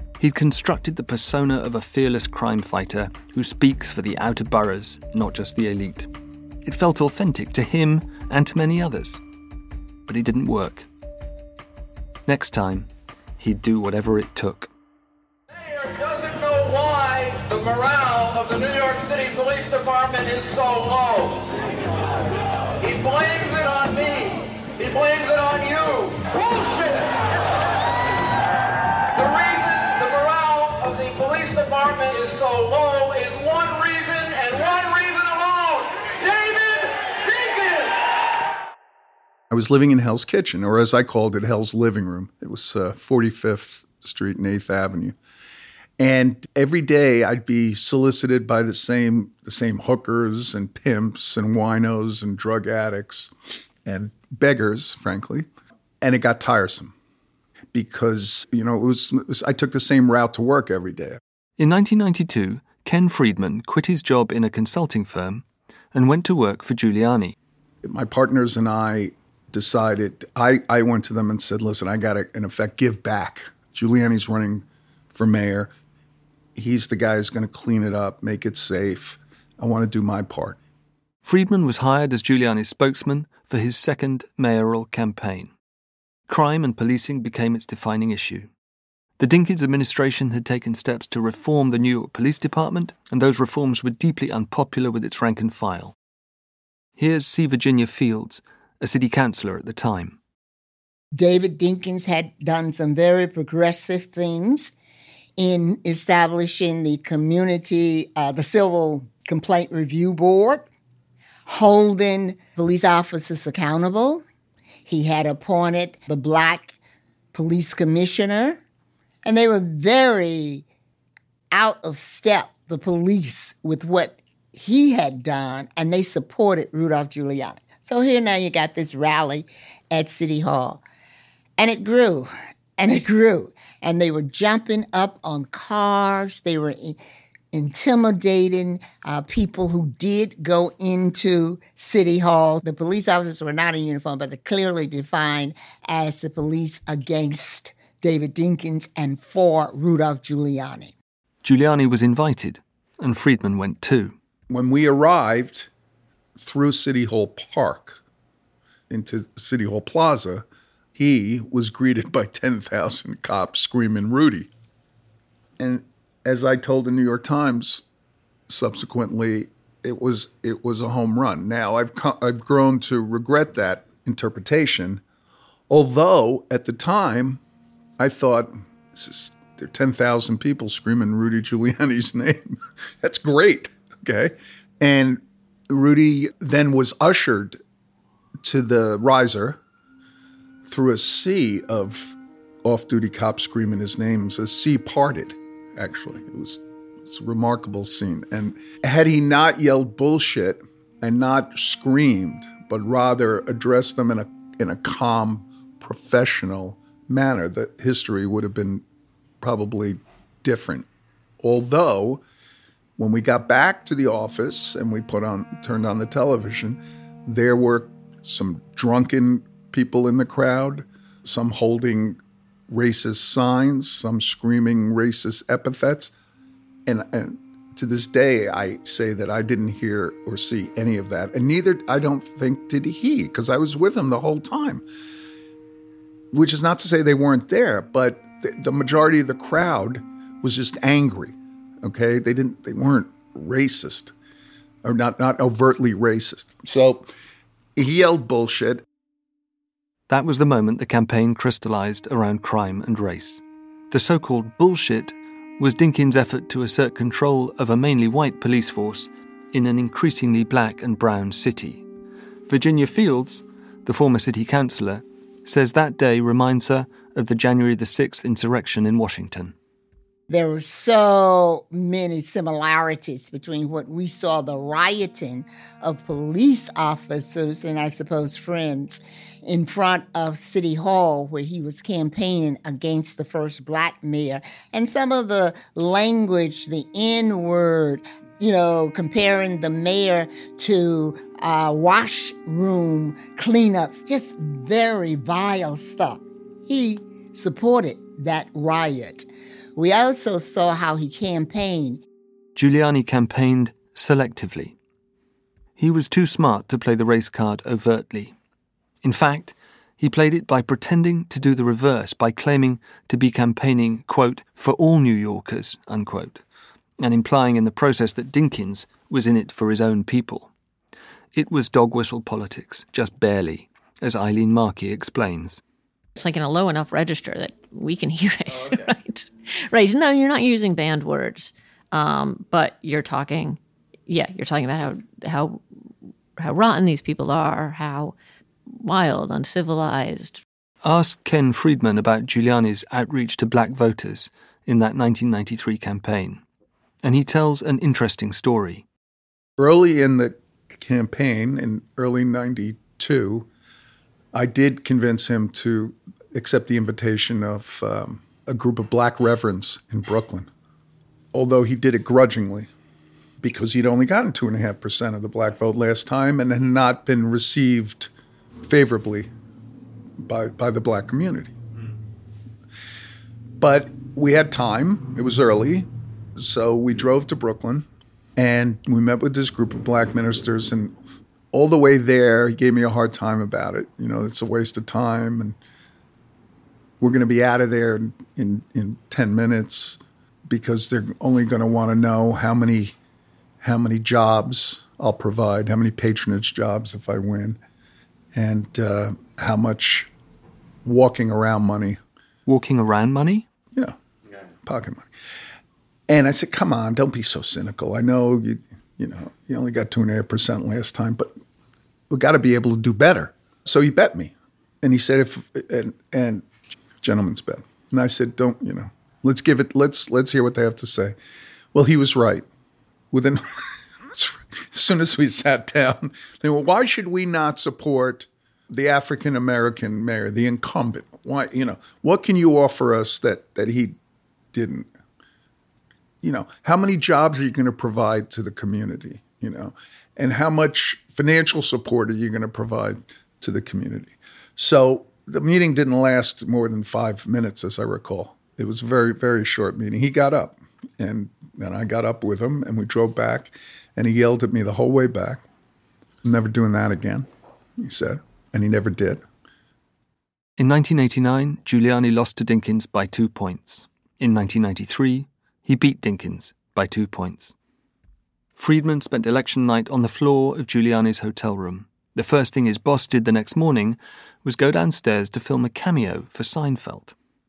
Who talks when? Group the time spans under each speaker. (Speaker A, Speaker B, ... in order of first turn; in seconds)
Speaker A: 0.2-6.1, 6.6-9.2, 10.1-10.9, 12.2-14.7, 61.6-67.3, 81.2-85.5, 86.3-88.5, 89.2-95.9, 97.0-100.2, 151.4-154.1, 250.1-261.8, 262.5-269.5, 302.6-304.7, 305.8-308.3, 309.0-316.4, 317.0-320.5, 321.3-325.6, 340.8-346.4, 347.0-348.9, 402.5-403.4, 460.6-467.5, 468.6-477.1
Speaker B: 15.5-21.5, 22.8-27.3, 29.1-38.1
Speaker C: 39.5-45.1, 46.0-53.3, 53.8-55.5, 56.0-56.9, 57.7-61.2, 67.8-75.7, 76.5-80.6, 154.5-155.7, 156.4-158.0, 158.9-164.5, 165.6-167.8, 168.5-175.0, 175.7-177.4, 178.0-187.6, 188.4-189.6, 190.7-208.8, 209.4-210.9, 211.4-212.2, 213.0-226.1, 226.9-234.8, 236.3-244.1, 244.8-247.1, 247.8-248.8, 349.6-353.5, 354.3-360.5, 361.3-362.7, 363.4-368.1, 368.6-369.3, 370.2-371.6, 373.6-377.8, 378.4-380.9, 381.5-385.6, 387.0-392.9, 393.6-397.6, 398.3-400.1, 400.8-402.0, 404.6-405.1, 406.1-411.3, 412.1-421.1, 421.7-422.4, 423.1-423.4, 424.1-434.0, 434.5-434.9, 436.2-455.4, 456.2-457.2, 457.8-459.2
Speaker D: 101.1-104.7, 105.4-110.7, 111.5-114.2, 114.8-116.8, 117.3-118.6, 119.2-120.6, 121.5-130.8, 131.6-137.0, 137.5-150.9, 270.3-302.0
Speaker E: 326.1-335.6, 336.4-338.1, 338.7-340.4